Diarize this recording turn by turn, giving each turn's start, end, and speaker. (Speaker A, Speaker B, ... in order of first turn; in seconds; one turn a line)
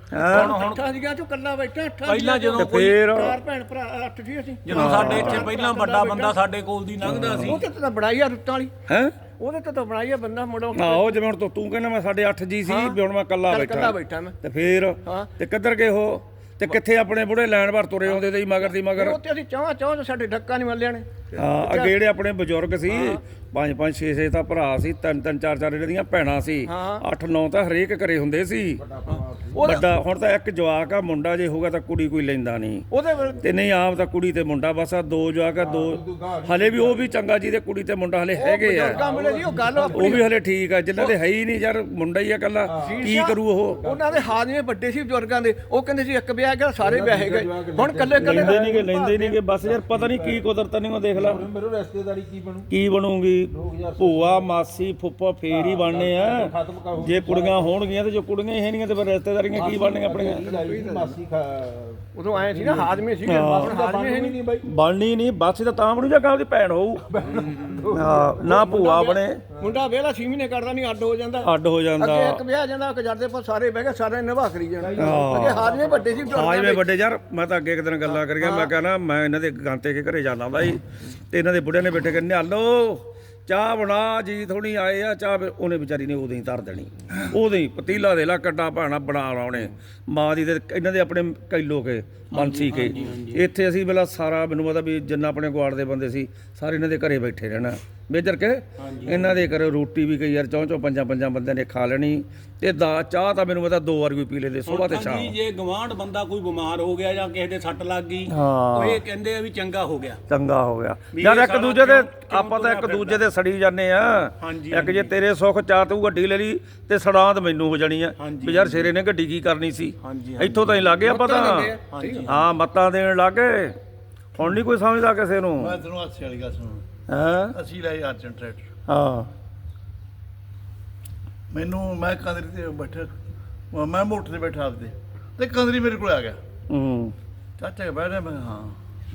Speaker A: 0.1-0.6
Speaker B: 0.2-0.8
Speaker C: 0.3-6.3
Speaker B: 2.0-2.9
Speaker A: 2.5-3.4
Speaker B: 4.6-7.6
Speaker A: 4.7-5.5
Speaker A: 7.0-7.6
Speaker C: 7.3-8.7
Speaker A: 8.9-9.2
Speaker C: 9.4-11.2
Speaker A: 10.7-19.2
Speaker C: 12.7-14.3
Speaker C: 15.0-15.3
Speaker C: 18.9-21.9
Speaker A: 21.4-28.8
Speaker C: 22.9-23.2
Speaker C: 26.6-27.0
Speaker D: 28.8-29.6
Speaker C: 29.1-29.8
Speaker A: 29.6-32.9
Speaker C: 32.9-33.4
Speaker A: 33.4-39.0
Speaker D: 35.6-37.0
Speaker C: 38.4-40.2
Speaker D: 38.8-40.2
Speaker A: 39.9-43.8
Speaker D: 42.6-44.3
Speaker C: 42.8-49.3
Speaker D: 46.8-48.9
Speaker A: 48.2-51.5
Speaker D: 49.5-50.4
Speaker D: 51.1-52.7
Speaker A: 52.7-60.4
Speaker D: 53.5-54.5
Speaker D: 55.5-57.7
Speaker D: 59.5-64.6
Speaker C: 60.4-61.1
Speaker C: 62.1-64.4
Speaker A: 63.2-63.7
Speaker A: 64.6-67.0
Speaker D: 67.1-68.3
Speaker A: 67.9-69.4
Speaker C: 68.1-76.9
Speaker A: 71.4-72.4
Speaker D: 74.8-76.4
Speaker A: 75.0-75.7
Speaker A: 76.3-105.3
Speaker C: 78.2-78.7
Speaker B: 92.3-93.4
Speaker B: 98.8-99.3
Speaker B: 104.7-110.2
Speaker A: 108.3-109.0
Speaker A: 110.3-123.8
Speaker B: 111.1-113.2
Speaker B: 114.4-115.1
Speaker B: 118.2-118.9
Speaker B: 120.0-120.8
Speaker C: 121.0-122.2
Speaker B: 121.9-122.4
Speaker A: 124.3-125.8
Speaker E: 125.6-126.8
Speaker A: 127.1-127.5
Speaker E: 127.5-128.7
Speaker A: 128.9-129.3
Speaker E: 131.5-133.1
Speaker E: 133.7-136.4
Speaker A: 136.7-137.1
Speaker E: 137.6-138.8